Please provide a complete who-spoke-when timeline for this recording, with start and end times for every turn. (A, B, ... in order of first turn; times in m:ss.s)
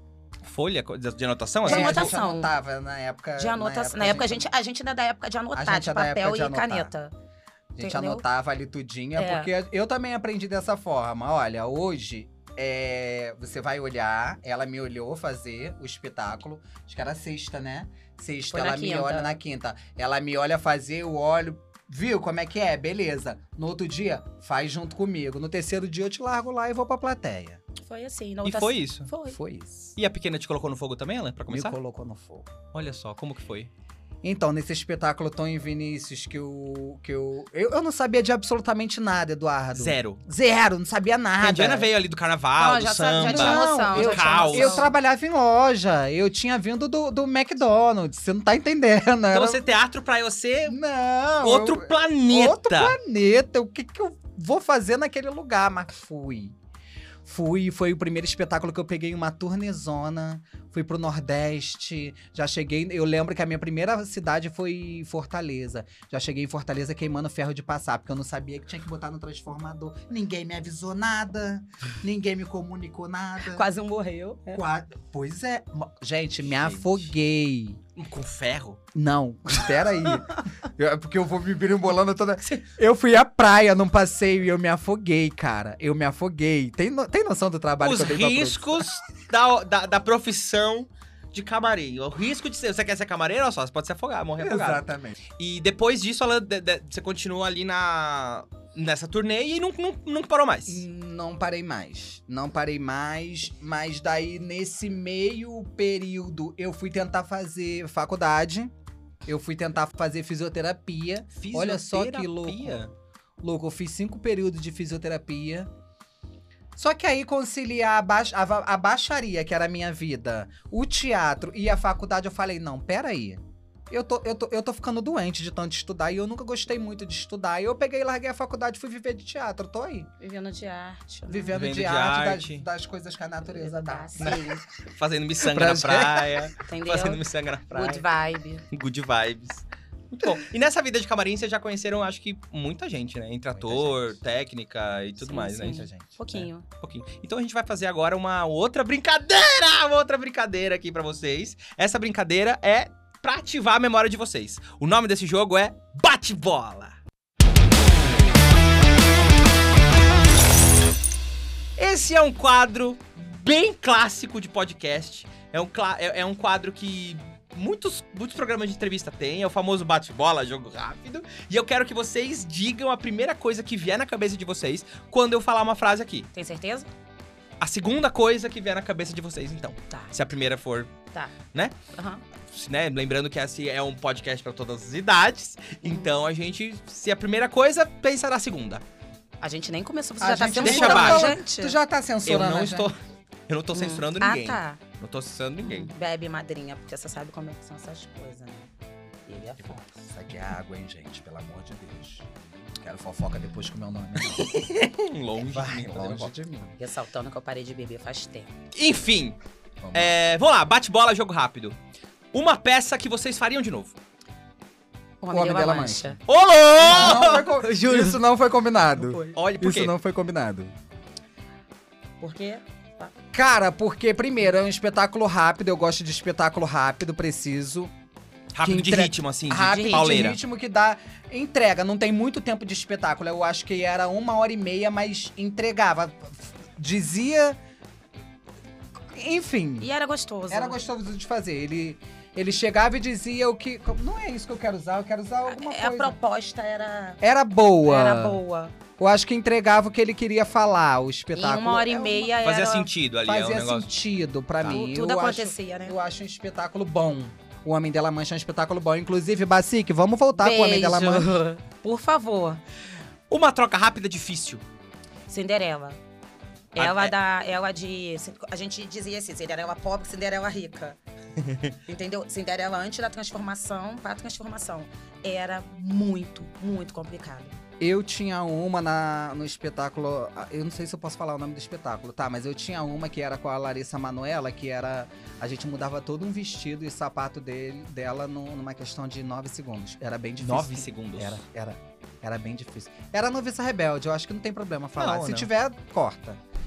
0:00.4-0:02.1 A
0:01.6-0:04.5 B
0:01.6-0:02.5 C
0:03.4-0:07.1 C
0:05.5-0:06.9 B
0:07.7-0:27.6 B
0:07.8-0:08.2 C
0:09.2-0:09.5 C
0:18.5-0:19.4 C
0:27.8-0:29.4 C
0:28.4-0:29.1 A
0:29.3-0:30.0 B
0:30.0-0:31.8 A
0:31.5-0:32.5 B
0:32.7-0:33.7 A
0:34.2-0:41.9 B
0:39.7-0:40.2 A
0:41.4-0:44.9 A
0:42.6-0:44.9 C
0:43.2-0:49.6 B
0:49.3-0:50.8 A
0:50.7-0:56.6 B
0:51.4-0:53.0 A
0:57.2-1:13.6 B
1:13.4-1:14.6 C
1:14.5-1:17.8 B
1:16.4-1:17.1 A
1:18.0-1:18.8 A
1:18.9-1:28.9 B
1:27.8-1:34.8 A
1:34.4-1:35.2 B
1:35.4-1:40.8 A
1:40.6-1:48.7 B
1:49.2-1:52.8 B
1:51.4-1:52.9 A
1:53.4-1:55.7 B
1:56.8-2:10.1 B
2:10.2-2:11.6 C
2:11.3-2:14.4 B
2:11.5-2:12.6 A
2:13.4-2:14.6 C
2:14.9-2:18.0 A
2:15.4-2:16.5 B
2:16.6-2:18.6 C
2:18.7-2:37.0 A
2:23.5-2:24.2 B
2:25.2-2:26.6 C
2:25.5-2:26.1 B
2:41.8-2:56.3 A
2:56.3-2:56.9 C
2:57.6-3:00.9 A
2:59.9-3:00.1 C
3:01.9-3:02.2 C
3:02.5-3:08.8 A
3:09.4-3:11.8 C
3:10.2-3:12.9 B
3:10.6-3:11.4 A
3:12.2-3:13.0 A
3:13.5-3:15.9 A
3:13.7-3:14.8 C
3:15.6-3:18.7 C
3:19.2-3:19.8 C
3:19.6-3:22.3 B
3:22.8-3:24.7 B
3:24.8-3:26.3 A
3:25.4-3:26.7 B
3:26.7-3:28.5 C
3:28.7-3:29.4 A
3:29.8-3:30.2 B
3:29.9-3:31.8 A
3:32.3-3:34.0 A
3:35.2-3:36.2 C
3:35.3-3:36.2 B
3:36.3-3:37.6 A
3:36.8-3:40.7 B
3:37.1-3:38.1 C
3:39.0-3:39.4 C
3:39.3-3:39.9 A
3:42.2-3:43.1 C
3:43.3-3:47.9 B
3:48.5-3:50.4 A
3:48.6-3:57.6 B
3:49.6-3:50.3 C
3:59.1-3:59.9 B
3:59.8-4:00.8 C
4:00.5-4:06.2 B
4:05.4-4:07.2 C
4:07.2-4:08.4 B
4:07.8-4:08.7 C
4:09.0-4:12.4 B
4:11.3-4:12.9 C
4:12.4-4:13.9 A
4:13.2-4:21.3 B
4:14.6-4:16.0 C
4:20.3-4:22.6 C
4:23.3-4:24.6 A
4:25.3-4:26.0 C
4:26.7-4:31.0 C
4:26.8-4:27.1 A
4:31.4-4:31.7 A
4:31.8-4:37.6 C
4:37.8-4:56.4 B
4:50.4-4:51.4 A
4:55.0-4:55.5 A